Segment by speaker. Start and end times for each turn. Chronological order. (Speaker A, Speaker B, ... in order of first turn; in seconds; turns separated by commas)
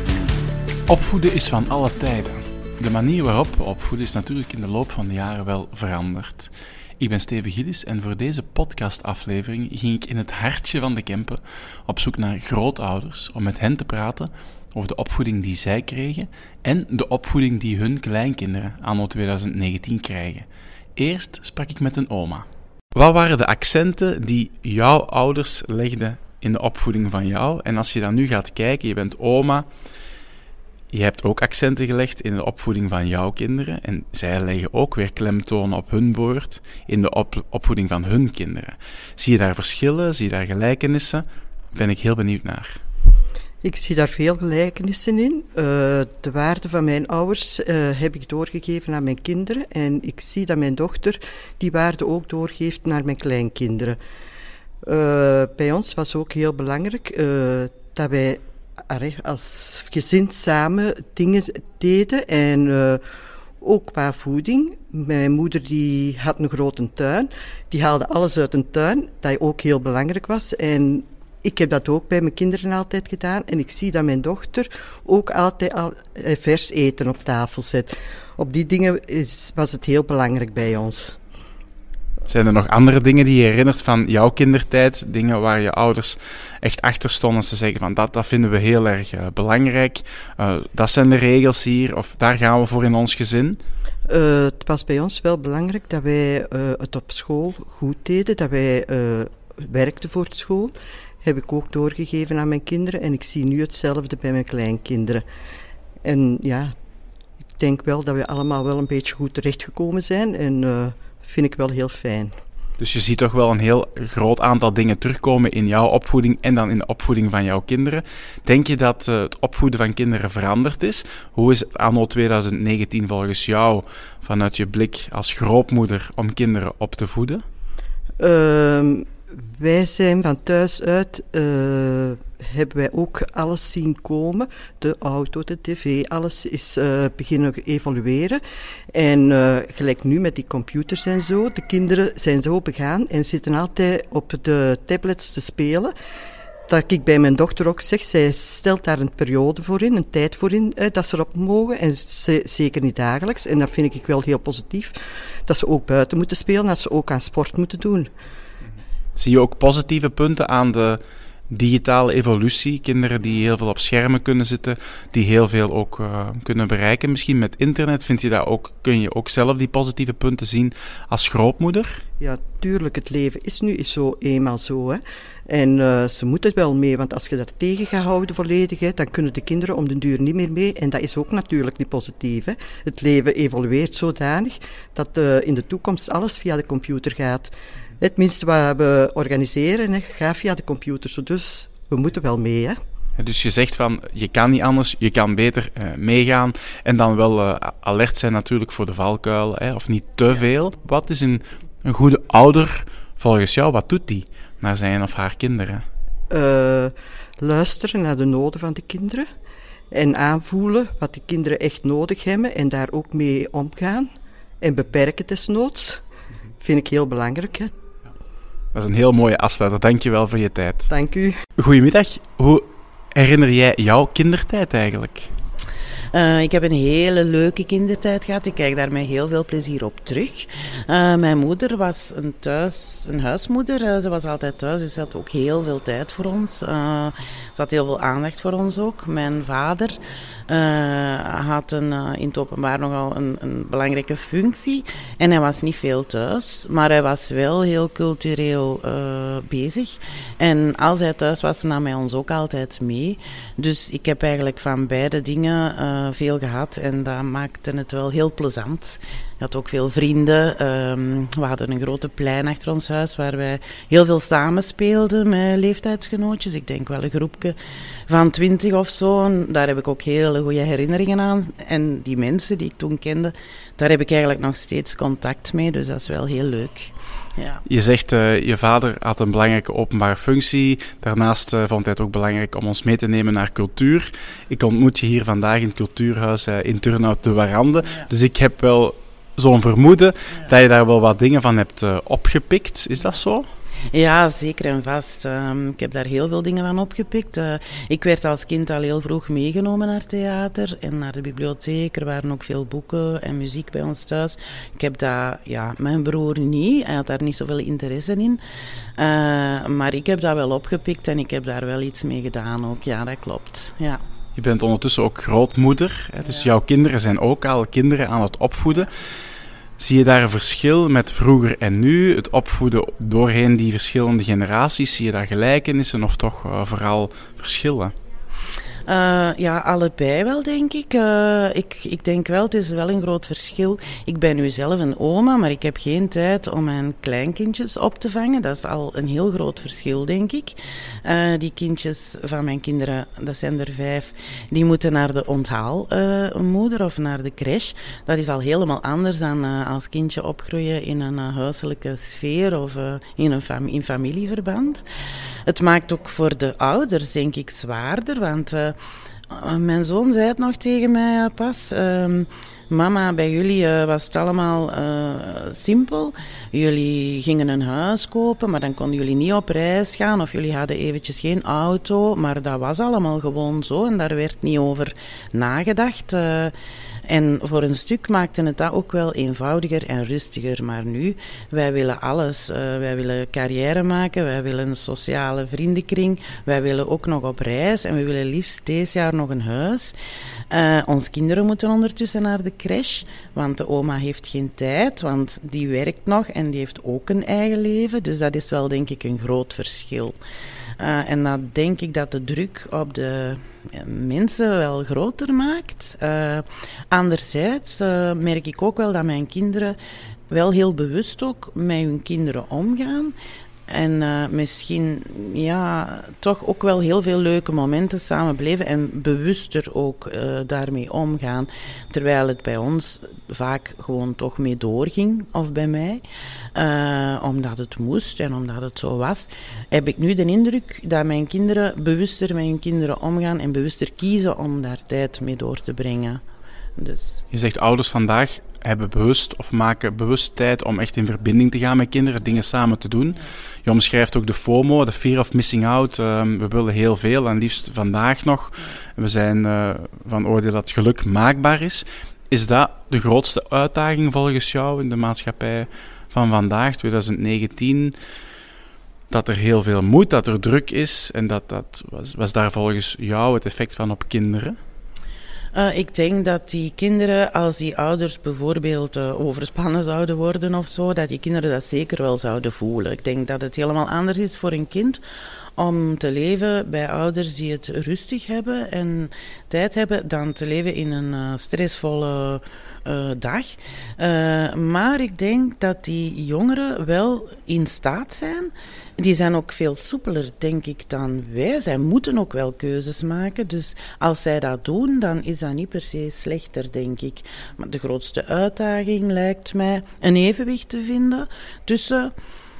Speaker A: 0.9-29.6, Speaker A: 30.9-42.8, Speaker B: 43.6-54.0, Speaker B: 54.8-63.0, Speaker B: 63.6-81.2, Speaker A: 82.3-93.6, Speaker B: 94.1-105.2, Speaker B: 106.0-106.7, Speaker B: 107.6-112.3, Speaker A: 112.8-127.4, Speaker B: 128.2-138.4, Speaker B: 138.9-145.9, Speaker B: 146.7-154.9, Speaker B: 155.4-158.1, Speaker A: 159.2-172.0, Speaker B: 172.2-192.8, Speaker A: 193.2-205.8, Speaker B: 206.3-209.2, Speaker B: 209.9-216.0, Speaker B: 216.6-217.7, Speaker A: 218.7-220.9, Speaker B: 220.9-221.4, Speaker A: 221.6-225.3, Speaker C: 226.1-267.6, Speaker C: 268.1-277.6, Speaker A: 277.6-293.5, Speaker C: 293.9-308.4, Speaker C: 309.0-314.0, Speaker A: 314.3-318.9, Speaker A: 319.8-327.9, Speaker C: 328.9-354.8, Speaker C: 355.5-358.8, Speaker C: 359.3-376.5, Speaker C: 377.1-389.9, Speaker C: 390.5-400.2, Speaker C: 400.8-409.8, Speaker C: 410.3-413.1, Speaker C: 413.7-426.0, Speaker C: 426.5-436.2, Speaker C: 436.8-437.2, Speaker A: 437.3-457.9, Speaker A: 459.1-464.6, Speaker C: 465.5-475.0, Speaker C: 475.6-502.1